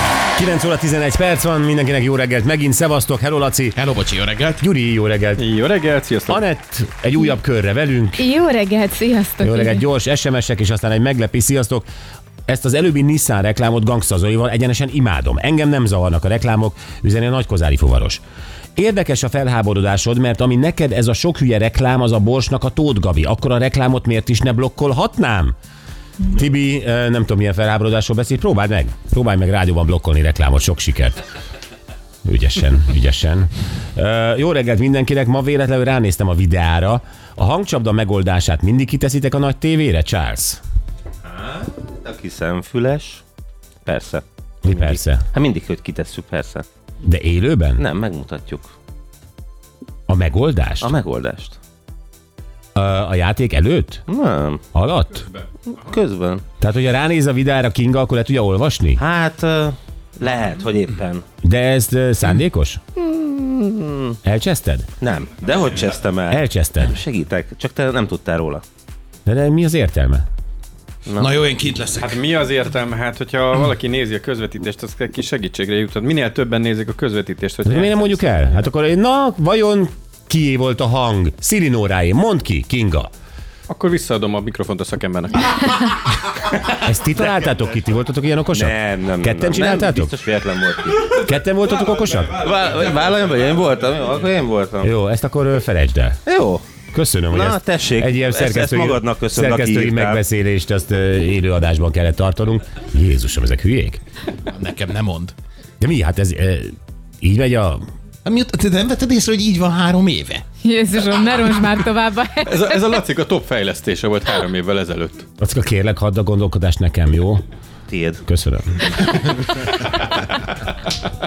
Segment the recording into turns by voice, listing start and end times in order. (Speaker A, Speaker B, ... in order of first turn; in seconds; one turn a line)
Speaker A: 0.3-3.8
Speaker B: 3.8-4.6
Speaker A: 4.6-5.4
Speaker C: 5.4-6.4
Speaker A: 6.3-8.2
Speaker D: 8.2-9.8
Speaker A: 9.4-11.8
Speaker A: 12.5-18.2
Speaker A: 18.8-25.5
Speaker A: 26.3-31.2
Speaker A: 32.2-40.6
Speaker E: 41.2-43.2
Speaker E: 43.8-46.6
Speaker A: 44.6-45.2
Speaker A: 47.0-47.8
Speaker E: 47.8-48.7
Speaker A: 50.1-50.9
Speaker E: 50.8-51.6
Speaker A: 52.8-54.0
Speaker E: 54.1-54.6
Speaker A: 54.7-55.3
Speaker E: 55.7-56.4
Speaker A: 56.6-59.0
Speaker E: 59.0-61.2
Speaker A: 61.4-62.8
Speaker E: 63.0-64.2
Speaker A: 64.2-64.9
Speaker E: 65.0-68.6
Speaker A: 66.3-66.9
Speaker A: 69.2-70.2
Speaker B: 71.2-72.2
Speaker C: 72.0-78.2
Speaker A: 77.6-83.1
Speaker C: 83.7-85.8
Speaker A: 86.7-90.1
Speaker E: 88.5-91.1
Speaker A: 91.1-92.4
Speaker E: 92.3-94.9
Speaker A: 94.8-96.2
Speaker E: 96.2-96.6
Speaker A: 96.9-104.0
Speaker E: 97.3-100.2
Speaker B: 104.5-105.3
Speaker A: 105.8-107.8
Speaker B: 108.2-110.4
Speaker D: 110.6-113.0
Speaker C: 112.4-115.2
Speaker A: 115.4-117.4
Speaker E: 117.9-118.2
Speaker A: 118.3-119.1